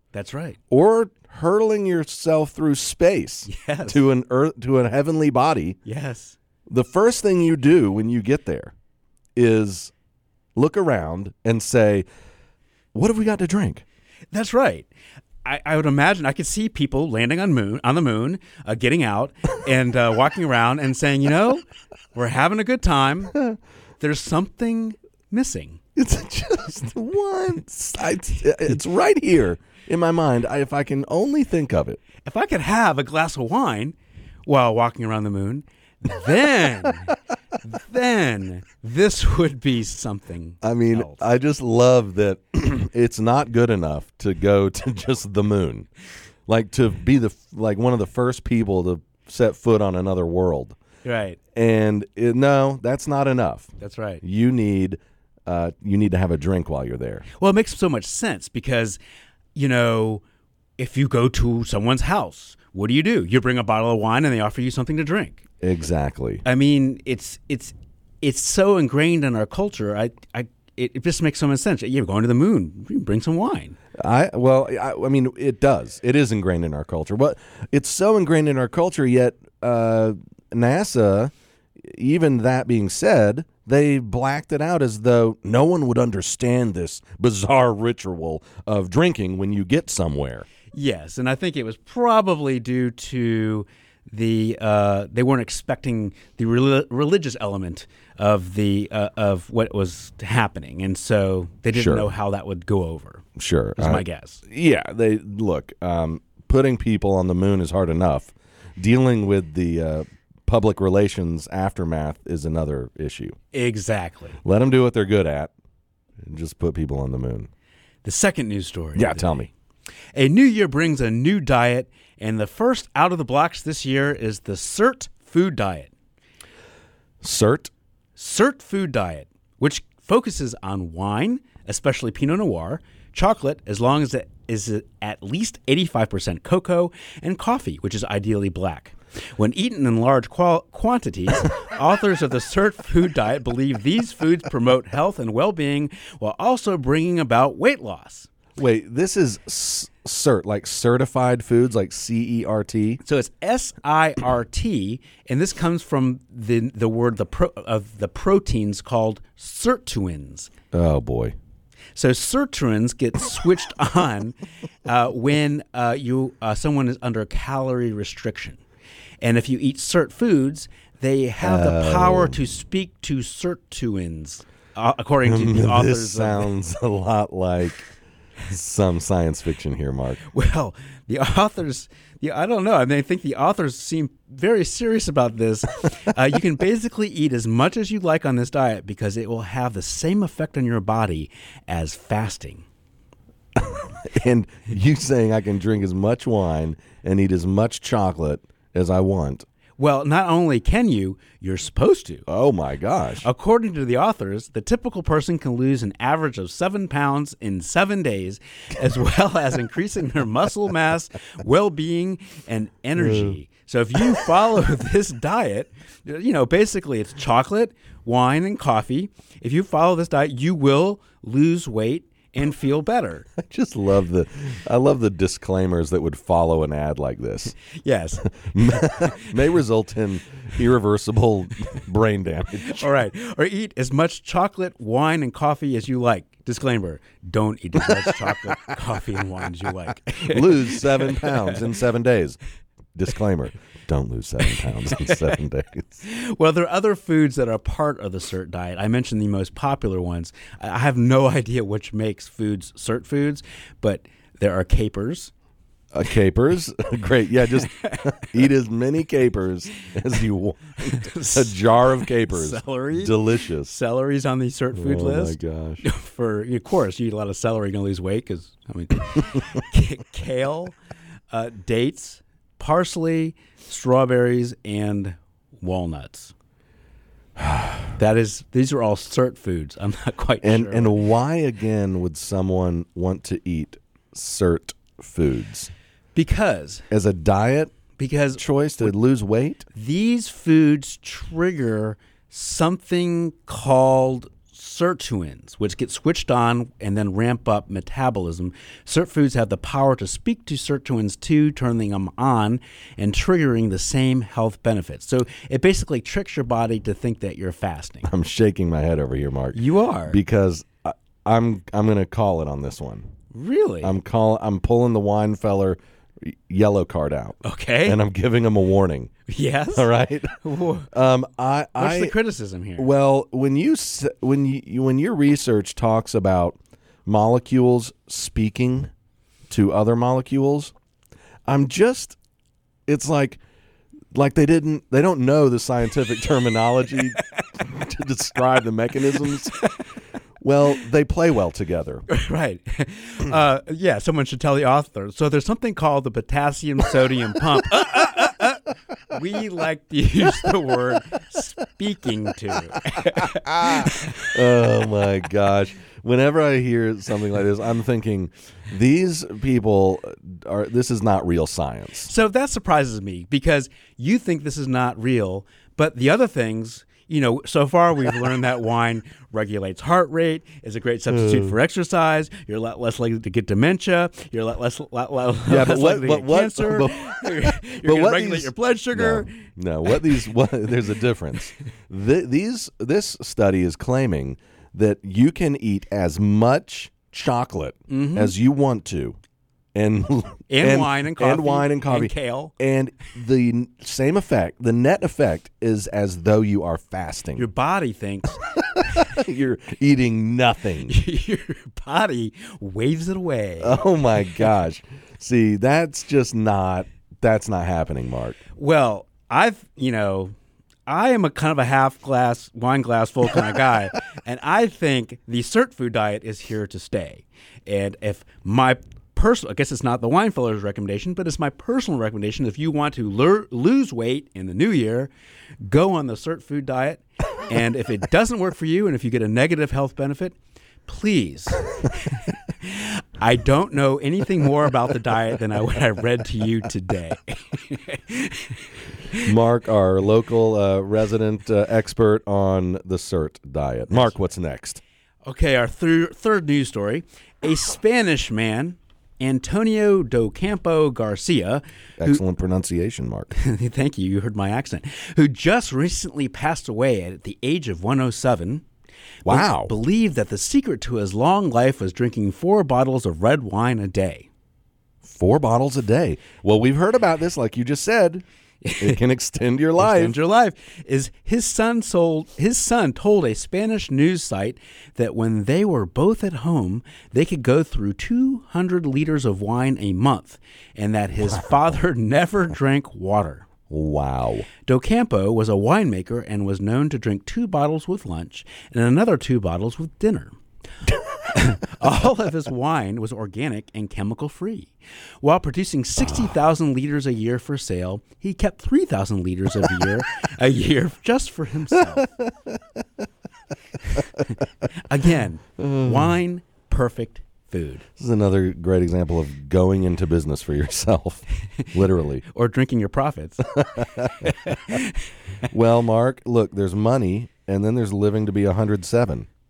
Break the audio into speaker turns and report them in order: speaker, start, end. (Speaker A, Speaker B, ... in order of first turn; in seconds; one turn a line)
Speaker A: 0.1-0.6
Speaker B: 0.7-5.8
Speaker A: 3.5-4.1
Speaker A: 5.8-6.4
Speaker B: 6.7-8.7
Speaker B: 9.3-9.9
Speaker B: 10.6-12.1
Speaker B: 12.9-13.8
Speaker A: 14.3-14.9
Speaker A: 15.4-23.4
Speaker A: 24.0-25.8
Speaker B: 25.9-32.0
Speaker A: 32.2-33.9
Speaker A: 34.4-41.2
Speaker B: 40.6-45.9
Speaker B: 46.5-50.8
Speaker A: 51.0-51.4
Speaker B: 51.5-57.2
Speaker A: 53.8-54.2
Speaker A: 57.4-59.0
Speaker A: 59.5-60.2
Speaker A: 60.8-65.4
Speaker B: 65.6-66.4
Speaker A: 66.4-73.8
Speaker B: 73.9-90.5
Speaker A: 90.7-103.2
Speaker B: 101.7-102.1
Speaker B: 103.4-113.3
Speaker A: 103.8-104.4
Speaker A: 113.5-114.4
Speaker B: 114.4-115.5
Speaker B: 116.2-117.5
Speaker A: 118.0-119.4
Speaker B: 119.0-119.5
Speaker A: 120.1-125.9
Speaker B: 127.2-127.7
Speaker A: 128.2-148.3
Speaker B: 148.6-153.0
Speaker A: 153.0-160.5
Speaker B: 160.7-161.3
Speaker A: 161.9-168.6
Speaker A: 169.2-176.5
Speaker B: 171.4-172.4
Speaker B: 175.2-177.9
Speaker B: 178.5-180.2
Speaker A: 180.3-192.7
Speaker B: 193.6-199.4
Speaker A: 199.8-202.2
Speaker B: 202.3-203.3
Speaker A: 203.2-223.3
Speaker B: 213.0-213.3
Speaker B: 223.4-227.6
Speaker A: 227.8-229.1
Speaker B: 228.4-232.9
Speaker A: 232.7-241.6
Speaker B: 240.2-242.4
Speaker B: 242.9-246.0
Speaker A: 244.9-245.2
Speaker A: 246.0-255.3
Speaker B: 255.9-263.7
Speaker A: 257.8-258.1
Speaker A: 260.9-270.7
Speaker B: 264.7-265.8
Speaker A: 271.3-276.3
Speaker B: 277.4-277.9
Speaker A: 278.0-281.0
Speaker B: 280.4-285.7
Speaker A: 286.1-286.8
Speaker B: 286.9-287.7
Speaker A: 288.0-288.9
Speaker B: 288.3-289.7
Speaker A: 289.7-308.1
Speaker B: 308.0-313.1
Speaker A: 309.5-310.2
Speaker A: 313.3-314.0
Speaker B: 313.8-319.1
Speaker A: 317.4-318.0
Speaker A: 319.3-319.9
Speaker B: 319.7-322.1
Speaker A: 320.4-320.9
Speaker A: 321.8-322.9
Speaker B: 322.8-328.9
Speaker B: 329.5-330.7
Speaker B: 331.4-332.2
Speaker B: 332.9-333.4
Speaker B: 334.1-339.6
Speaker B: 340.4-342.1
Speaker A: 342.1-354.3
Speaker B: 353.3-362.1
Speaker A: 362.1-379.4
Speaker B: 371.1-371.6
Speaker B: 375.5-389.2
Speaker A: 387.9-388.3
Speaker B: 389.7-397.5
Speaker A: 390.5-392.5
Speaker A: 397.4-398.4
Speaker B: 398.8-400.9
Speaker A: 400.9-403.8
Speaker B: 403.6-408.4
Speaker A: 408.6-410.3
Speaker A: 410.9-425.1
Speaker A: 425.6-438.6
Speaker B: 439.2-444.8
Speaker A: 445.2-452.2
Speaker B: 452.0-453.3
Speaker A: 453.3-458.6
Speaker A: 459.2-464.3
Speaker B: 459.2-459.7
Speaker B: 465.0-468.2
Speaker A: 468.6-469.0
Speaker B: 468.8-470.1
Speaker A: 469.8-483.4
Speaker B: 483.7-484.5
Speaker A: 484.7-490.4
Speaker A: 491.3-502.1
Speaker B: 501.9-502.6
Speaker A: 504.8-507.8
Speaker B: 505.6-506.2
Speaker B: 508.0-512.2
Speaker A: 512.2-513.5
Speaker B: 513.6-514.7
Speaker A: 514.2-514.9
Speaker B: 515.5-519.3